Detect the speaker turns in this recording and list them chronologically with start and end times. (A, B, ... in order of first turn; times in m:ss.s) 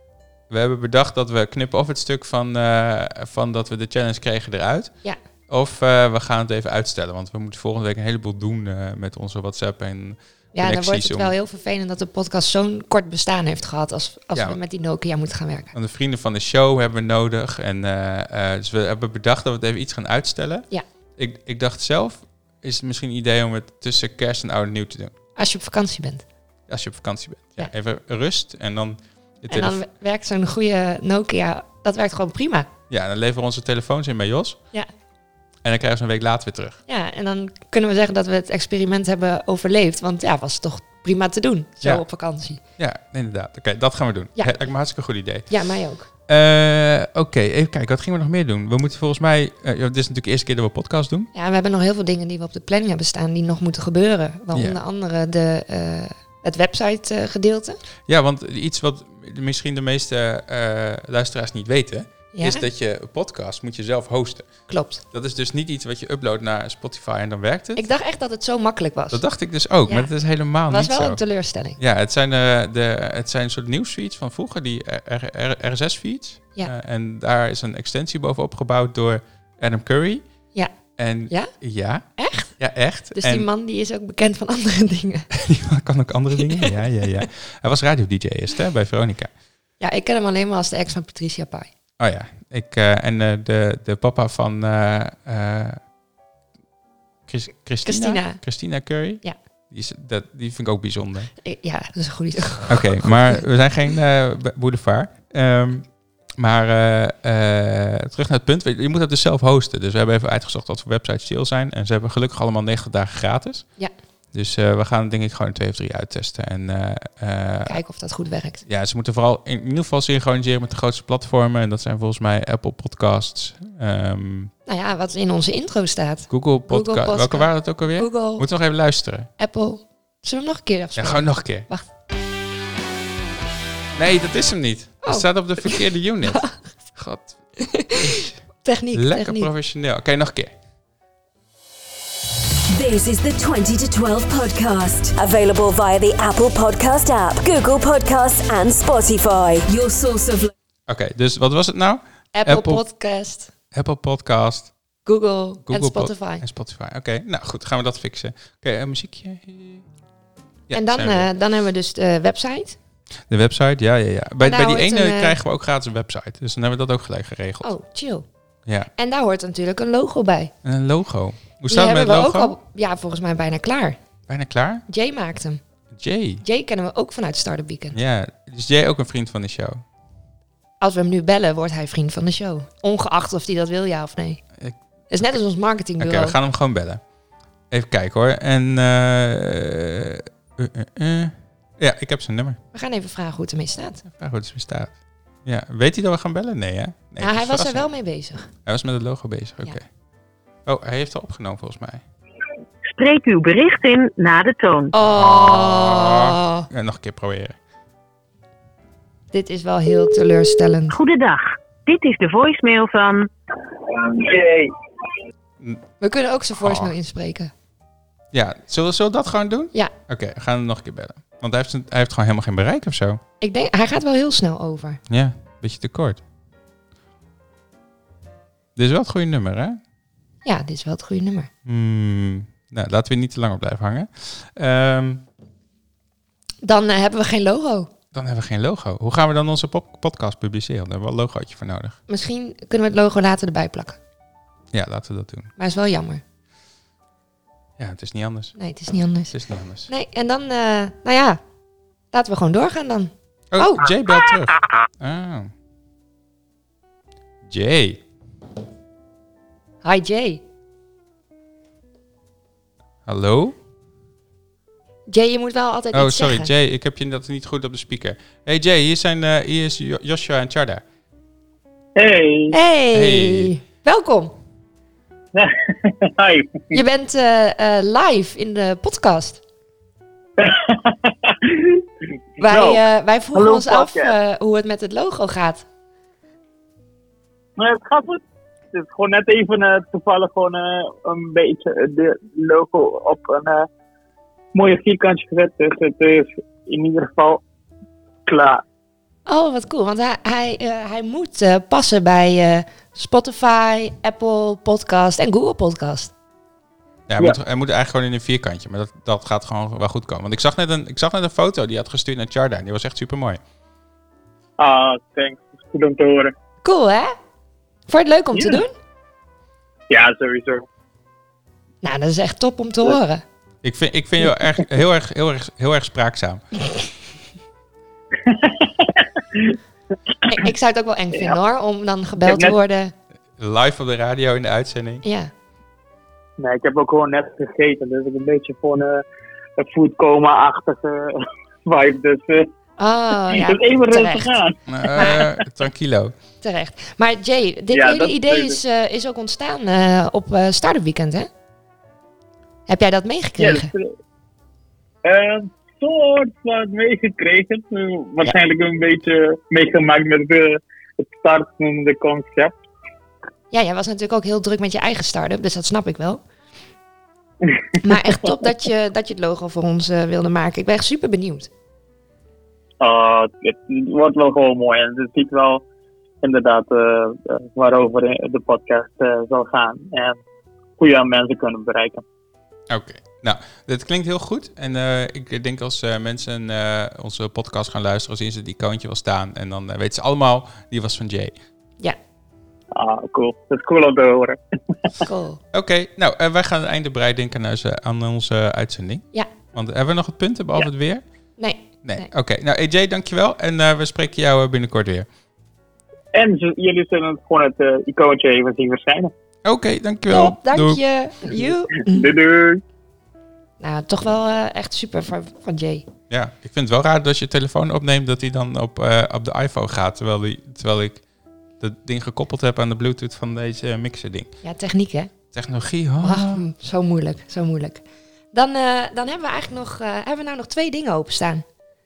0:00.5-0:04.9 A
0:05.5-0:11.3 A
0:10.6-0:15.7 B
0:14.3-0:14.6 A
0:15.7-0:25.1 A
0:25.4-0:26.2 B
0:26.7-0:29.8 A
0:29.5-0:32.7 B
0:32.9-0:34.6 A
0:35.6-0:36.8 A
0:36.9-0:42.6 B
0:42.8-0:45.5 A
0:45.5-0:46.1 B
0:46.3-0:51.3 A
0:51.4-0:57.8 B
0:54.5-0:54.8 A
0:58.1-1:04.5 A
1:02.3-1:02.7 B
1:04.7-1:05.0 B
1:05.1-1:07.8 A
1:07.8-1:09.2 B
1:09.1-1:11.2 A
1:09.9-1:10.1 B
1:10.7-1:11.8 B
1:11.8-1:20.2 A
1:21.0-1:22.1 A
1:22.2-1:22.5 B
1:22.6-1:23.5 A
1:23.1-1:25.3 B
1:25.3-1:29.3 A
1:26.5-1:26.8 B
1:29.8-1:31.7 B
1:32.0-1:35.8 A
1:37.3-1:41.3 A
1:37.8-1:38.4 B
1:41.4-1:43.4 B
1:42.7-1:53.7 A
1:54.3-1:57.8 A
1:57.7-1:58.6 B
1:58.7-2:04.5 A
2:04.7-2:08.5 B
2:06.3-2:09.3 A
2:09.4-2:11.8 B
2:11.0-2:11.7 A
2:14.0-2:17.4 A
2:15.0-2:16.6 B
2:17.6-2:19.5 B
2:17.9-2:18.4 A
2:18.9-2:20.5 A
2:22.7-2:30.5 C
2:30.9-2:32.8 A
2:32.3-2:33.5 B
2:33.7-2:34.7 A
2:35.0-2:36.4 B
2:35.7-2:39.9 A
2:40.7-2:41.3 A
2:40.7-2:42.8 B
2:43.3-2:47.7 A
2:44.4-2:45.4 B
2:47.6-2:48.3 B
2:49.0-2:50.5 B
2:50.6-2:52.6 A
2:51.7-2:54.0 B
2:54.3-2:54.8 A
2:54.9-2:55.6 B
2:55.9-2:56.4 A
2:56.4-2:58.0 B
2:57.9-2:59.8 A
3:00.8-3:04.4 B
3:05.1-3:06.4 B
3:06.0-3:07.0 A
3:07.7-3:12.6 A
3:12.7-3:14.0 B
3:14.1-3:14.9 A
3:15.4-3:17.9 A
3:17.2-3:18.5 B
3:18.6-3:19.8 A
3:20.7-3:22.0 A
3:22.9-3:24.9 D
3:24.9-3:26.7 B
3:25.1-3:27.6 A
3:29.3-3:31.0 B
3:30.9-3:33.3 D
3:33.9-3:34.7 E
3:36.0-3:37.5 B
3:36.6-3:37.0 A
3:38.3-3:43.2 A
3:43.4-3:45.0 B
3:45.1-3:46.2 A
3:48.8-3:49.8 A
3:50.4-3:51.5 B
3:51.6-3:55.2 A
3:56.6-3:57.9 B
3:58.1-4:02.0 A
4:02.1-4:04.0 B
4:04.7-4:05.5 A
4:05.6-4:06.2 B
4:07.8-4:08.6 A
4:08.6-4:09.4 B
4:09.3-4:09.9 A
4:09.9-4:11.4 B
4:12.1-4:13.9 B
4:13.5-4:15.5 A
4:17.4-4:18.0 A
4:19.8-4:20.4 B
4:23.1-4:23.6 A
4:25.1-4:26.5 B
4:25.9-4:30.8 A
4:32.0-4:32.6 E
4:32.5-4:34.4 B
4:32.9-4:33.5 A
4:35.4-4:36.8 E
4:36.7-4:39.4 B
4:40.4-4:41.8 E
4:42.4-4:44.2 E
4:42.4-4:45.7 B
4:47.6-4:53.7 E
4:54.5-4:57.4 E
4:58.3-4:58.6 E
4:59.3-5:06.1 B
5:07.1-5:13.4 A
5:14.6-5:16.3 E
5:16.6-5:17.2 B
5:17.9-5:18.7 B
5:18.4-5:18.6 E
5:19.9-5:20.6 E
5:21.8-5:23.2 B
5:23.6-5:26.4 A
5:28.2-5:29.6 E
5:30.3-5:32.9 B
5:32.2-5:32.6 E
5:33.4-5:35.0 A
5:35.0-5:35.3 B
5:36.4-5:39.0 E
5:39.6-5:41.1 E
5:41.6-5:42.5 E
5:42.8-5:44.4 B
5:43.3-5:45.3 E
5:44.7-5:46.2 A
5:46.4-5:51.3 B
5:47.7-5:48.6 E
5:52.7-5:53.7 B
5:53.4-5:53.9 E
5:55.0-6:02.6 E
6:03.5-6:06.2 B
6:07.8-6:11.5 B
6:12.8-6:15.6 E
6:16.2-6:20.2 E
6:20.8-6:22.0 E
6:22.7-6:31.3 A
6:32.7-6:34.4 E
6:35.0-6:35.4 B
6:35.5-6:41.0 A
6:41.4-6:42.1 B
6:41.8-6:45.1 A
6:46.1-6:49.1 E
6:49.4-6:50.8 A
6:50.1-6:52.1 B
6:51.4-6:52.6 E
6:53.6-6:55.9 B
6:56.1-7:01.0 A
7:01.6-7:04.3 A
7:04.4-7:05.1 B
7:05.3-7:06.5 A
7:06.0-7:11.4 B